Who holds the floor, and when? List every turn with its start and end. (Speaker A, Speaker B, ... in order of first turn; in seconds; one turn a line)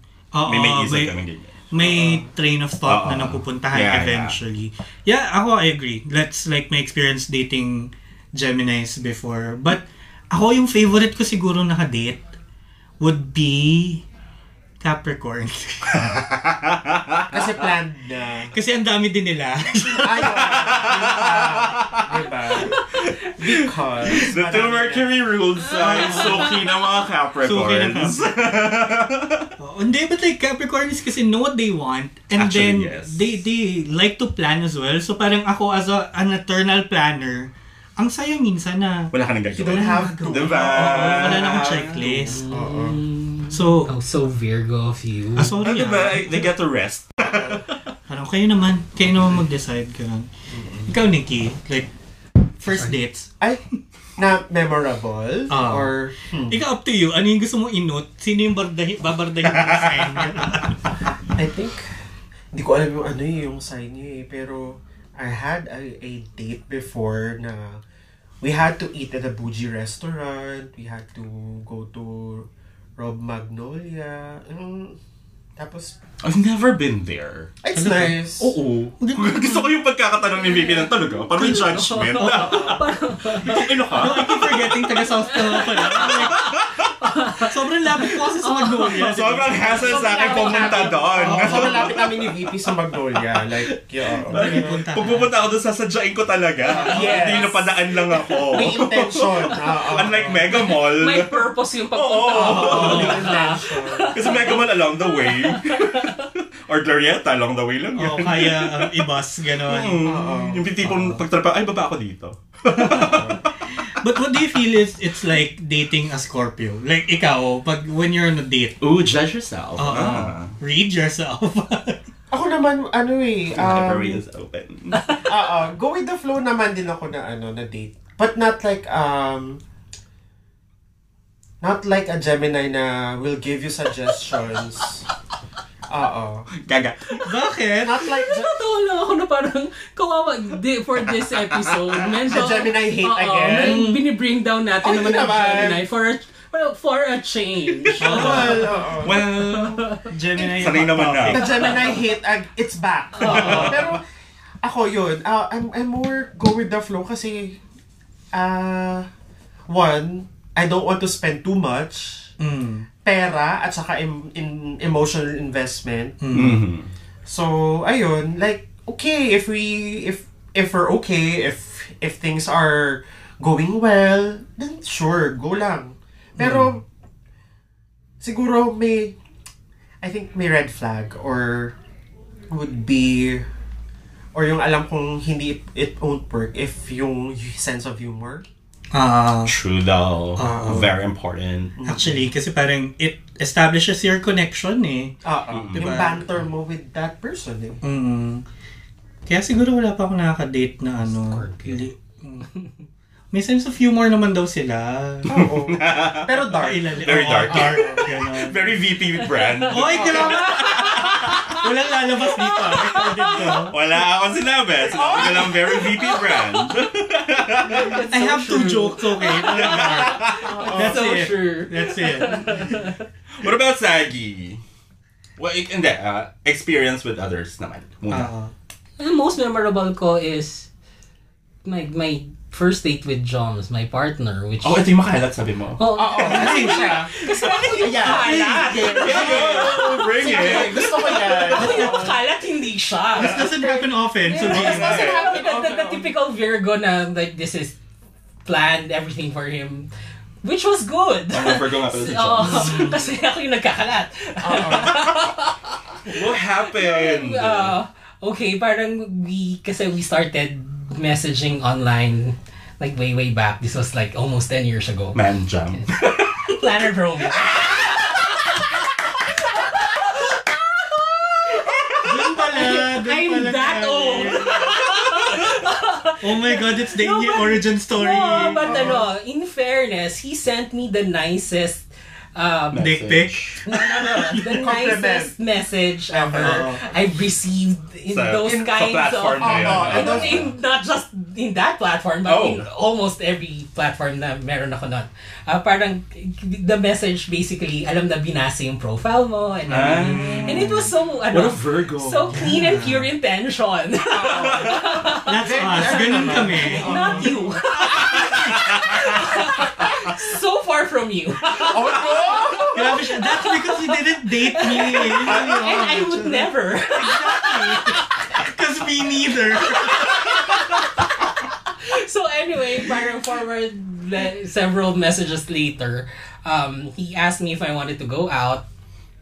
Speaker A: 0.3-12.3
Speaker B: 0.4-1.6
Speaker C: 1.8-2.2
Speaker B: 2.8-4.4
Speaker A: 13.0-14.0
Speaker A: 14.8-16.2
Speaker B: 15.9-17.6
Speaker C: 17.3-18.5
Speaker A: 18.5-20.6
Speaker C: 20.0-22.8
Speaker B: 20.3-22.0
Speaker D: 22.5-23.3
Speaker C: 23.4-25.1
Speaker B: 23.5-29.5
Speaker D: 25.6-27.0
Speaker A: 25.7-26.6
Speaker A: 27.4-28.3
Speaker A: 29.6-42.4
Speaker B: 32.3-33.2
Speaker B: 39.1-41.8
Speaker C: 39.5-43.0
Speaker D: 42.3-45.6
Speaker A: 43.5-43.9
Speaker A: 45.4-46.5
Speaker B: 45.6-47.7
Speaker A: 48.1-50.3
Speaker C: 50.5-50.9
Speaker A: 50.9-51.9
Speaker A: 52.6-53.3
Speaker D: 52.7-52.9
Speaker C: 54.2-56.6
Speaker A: 55.5-55.9
Speaker A: 56.5-61.1
Speaker C: 61.3-61.8
Speaker C: 62.5-67.8
Speaker C: 68.4-75.0
Speaker C: 75.5-76.0
Speaker B: 76.2-77.6
Speaker C: 77.6-78.5
Speaker A: 77.7-78.2
Speaker B: 78.4-84.9
Speaker A: 79.0-79.8
Speaker D: 80.4-83.7
Speaker A: 83.5-86.4
Speaker D: 85.2-91.6
Speaker B: 85.7-86.9
Speaker A: 87.4-89.8
Speaker B: 88.9-93.6
Speaker C: 89.8-94.8
Speaker A: 91.3-91.8
Speaker B: 94.3-103.3
Speaker A: 94.3-95.3
Speaker C: 96.7-97.5
Speaker D: 96.7-98.8
Speaker C: 98.5-100.5
Speaker D: 100.5-106.2
Speaker C: 102.3-104.2
Speaker A: 102.8-103.2
Speaker B: 104.1-109.0
Speaker A: 107.9-110.0
Speaker B: 109.6-113.5
Speaker C: 110.0-110.7
Speaker A: 110.8-111.2
Speaker A: 112.7-113.3
Speaker C: 113.0-113.4
Speaker A: 114.0-118.8
Speaker B: 118.8-120.5
Speaker A: 119.8-122.0
Speaker C: 122.3-124.2
Speaker B: 123.5-125.2
Speaker C: 125.1-129.6
Speaker C: 131.6-135.1
Speaker C: 135.9-136.5
Speaker B: 136.6-137.2
Speaker A: 137.2-138.0
Speaker C: 137.7-138.6
Speaker D: 138.0-150.1
Speaker B: 141.5-141.9
Speaker C: 142.2-143.9
Speaker A: 143.5-144.0
Speaker C: 144.8-145.8
Speaker B: 147.8-149.8
Speaker C: 148.0-149.2
Speaker A: 148.0-152.0
Speaker B: 150.4-152.0
Speaker C: 151.3-154.0
Speaker D: 153.2-153.7
Speaker B: 153.2-154.0
Speaker A: 153.4-153.8
Speaker C: 154.6-157.6
Speaker C: 158.3-159.1
Speaker C: 159.7-162.3
Speaker A: 162.4-162.9
Speaker C: 163.0-166.2
Speaker A: 166.2-166.6
Speaker B: 166.3-166.9
Speaker C: 167.2-176.8
Speaker A: 176.4-176.7
Speaker C: 178.2-179.2
Speaker C: 180.0-181.8
Speaker C: 182.5-183.4
Speaker C: 184.3-188.5
Speaker A: 188.9-189.6
Speaker B: 189.4-191.8
Speaker A: 190.4-190.9
Speaker C: 191.8-192.2
Speaker A: 191.8-195.1
Speaker C: 195.2-197.8
Speaker B: 195.5-196.1
Speaker A: 195.7-196.4
Speaker A: 197.8-198.4
Speaker A: 199.2-202.5
Speaker D: 201.0-201.9
Speaker D: 202.4-202.7
Speaker A: 203.3-205.4
Speaker C: 205.3-208.1
Speaker B: 205.3-206.4
Speaker A: 206.5-208.7
Speaker B: 207.0-211.6
Speaker D: 209.2-211.6
Speaker A: 209.7-213.8
Speaker D: 212.4-213.7
Speaker B: 213.5-218.0
Speaker C: 214.8-215.8
Speaker D: 214.9-216.8
Speaker D: 217.6-223.0
Speaker C: 217.7-218.0
Speaker A: 218.1-222.8
Speaker B: 219.5-220.5
Speaker C: 220.2-221.1
Speaker B: 223.4-224.6
Speaker B: 225.4-228.3
Speaker A: 228.1-228.5
Speaker D: 229.0-230.7
Speaker D: 231.6-234.9
Speaker B: 234.6-235.8
Speaker D: 235.8-247.8
Speaker C: 235.9-242.1
Speaker A: 236.2-237.0
Speaker B: 237.5-237.9
Speaker A: 238.1-238.5
Speaker B: 238.8-241.4
Speaker A: 241.5-242.1
Speaker A: 243.2-245.0
Speaker C: 243.6-246.1
Speaker B: 244.4-245.4
Speaker D: 248.4-249.9
Speaker D: 250.4-265.2
Speaker B: 251.3-252.9
Speaker A: 252.4-253.0
Speaker C: 254.4-255.1
Speaker B: 256.0-257.7
Speaker B: 265.1-266.5
Speaker D: 265.7-282.9
Speaker A: 272.0-274.8
Speaker A: 276.2-278.9
Speaker C: 278.6-279.1
Speaker B: 282.7-283.6
Speaker A: 282.8-284.7
Speaker D: 283.6-318.4
Speaker C: 284.0-285.3
Speaker C: 286.1-286.7
Speaker A: 286.4-286.8
Speaker B: 288.1-290.5
Speaker C: 288.4-288.8
Speaker C: 289.4-290.4
Speaker B: 292.2-292.6
Speaker A: 299.7-300.8
Speaker B: 299.7-302.4
Speaker A: 302.3-303.1
Speaker C: 304.1-307.4
Speaker B: 304.3-304.8
Speaker A: 305.2-307.4
Speaker B: 307.9-309.2
Speaker C: 311.6-313.0
Speaker A: 312.7-320.4
Speaker C: 315.2-316.0
Speaker D: 319.5-328.6